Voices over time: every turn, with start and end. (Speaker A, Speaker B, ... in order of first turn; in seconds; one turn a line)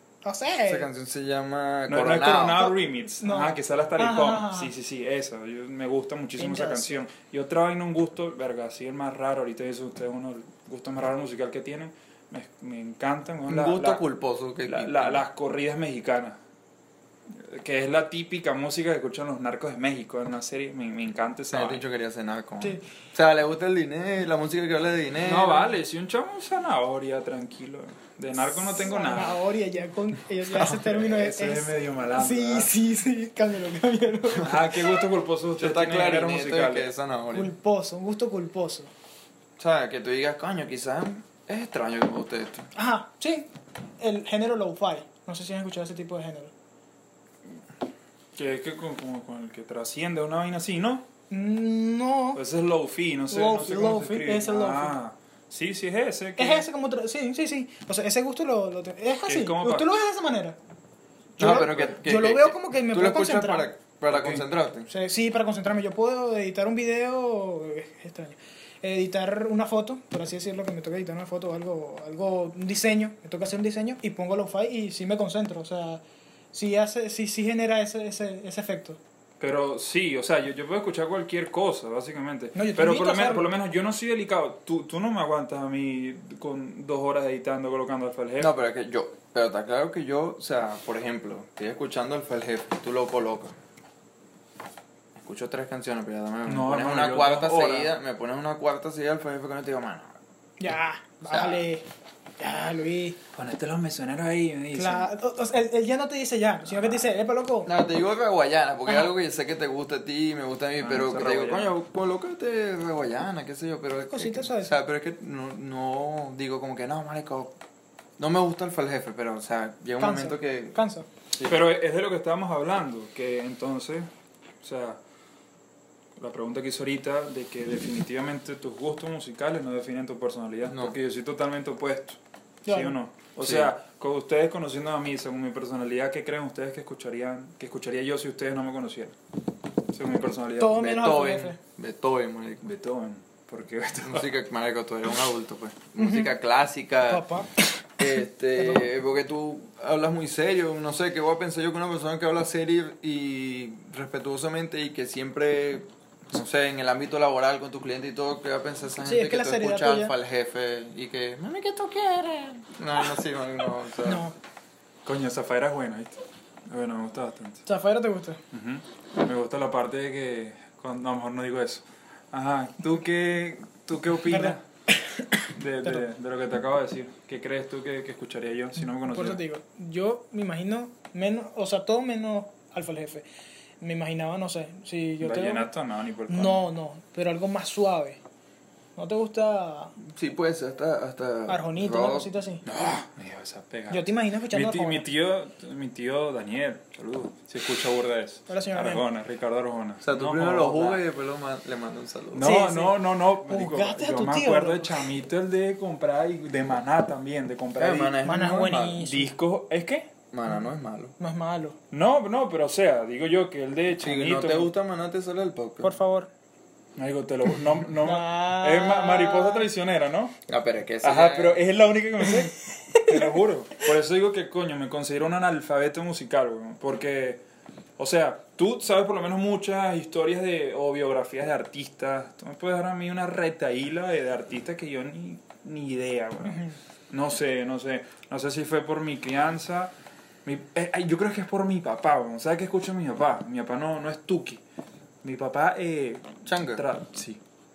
Speaker A: 0.2-0.9
Speaker B: 0.6-2.8
Speaker C: 1.9-14.0
Speaker A: 3.2-4.7
Speaker A: 6.4-7.0
Speaker B: 13.5-15.2
Speaker C: 14.7-16.4
Speaker C: 17.3-21.8
Speaker B: 21.5-25.8
Speaker C: 25.2-29.4
Speaker A: 28.5-34.8
Speaker C: 30.5-32.7
Speaker B: 34.3-34.6
Speaker C: 34.4-36.9
Speaker B: 35.6-37.5
Speaker A: 37.3-38.9
Speaker B: 39.6-42.7
Speaker A: 42.7-46.5
Speaker C: 48.4-51.0
Speaker A: 51.3-52.4
Speaker C: 52.3-56.6
Speaker A: 53.3-55.0
Speaker A: 56.4-60.6
Speaker C: 59.3-59.9
Speaker A: 61.4-63.7
Speaker B: 61.4-64.9
Speaker C: 64.1-64.4
Speaker A: 64.9-79.0
Speaker C: 79.4-88.5
Speaker A: 82.5-83.5
Speaker B: 88.4-93.5
Speaker B: 95.2-100.1
Speaker C: 96.5-97.9
Speaker A: 100.6-101.8
Speaker B: 101.3-101.6
Speaker A: 102.4-103.2
Speaker C: 103.3-105.1
Speaker A: 104.7-107.7
Speaker C: 106.7-107.0
Speaker B: 107.6-117.5
Speaker C: 110.8-111.7
Speaker A: 114.1-114.8
Speaker B: 118.2-120.8
Speaker A: 120.0-121.1
Speaker C: 121.4-124.1
Speaker C: 124.6-125.0
Speaker C: 126.2-139.1
Speaker B: 130.7-130.9
Speaker A: 132.7-133.0
Speaker B: 133.4-133.7
Speaker C: 139.9-140.8
Speaker A: 140.6-141.6
Speaker B: 140.7-142.7
Speaker C: 142.6-144.3
Speaker B: 144.0-147.2
Speaker A: 146.0-146.3
Speaker A: 147.1-148.8
Speaker B: 148.0-164.2
Speaker A: 159.0-160.1
Speaker A: 164.0-164.3
Speaker C: 165.0-167.6
Speaker A: 167.7-168.4
Speaker C: 168.5-174.6
Speaker A: 174.3-176.0
Speaker C: 175.5-179.4
Speaker A: 178.8-183.2
Speaker A: 183.8-185.7
Speaker C: 185.2-186.6
Speaker A: 186.3-188.2
Speaker A: 188.9-189.9
Speaker B: 190.0-192.3
Speaker A: 191.5-192.6
Speaker C: 192.6-201.0
Speaker A: 193.9-195.1
Speaker A: 198.5-199.0
Speaker B: 200.0-202.5
Speaker C: 202.3-208.2
Speaker A: 202.4-205.1
Speaker B: 207.7-209.0
Speaker A: 208.2-209.3
Speaker C: 209.0-210.1
Speaker B: 210.3-211.1
Speaker A: 211.2-211.8
Speaker C: 211.9-214.7
Speaker B: 214.0-215.9
Speaker A: 215.8-216.3
Speaker C: 216.9-220.3
Speaker A: 218.0-219.7
Speaker B: 220.5-221.6
Speaker C: 221.0-227.4
Speaker A: 222.4-223.3
Speaker C: 228.0-239.9
Speaker A: 236.4-236.8
Speaker C: 240.4-244.6
Speaker C: 245.2-247.4
Speaker B: 246.4-246.8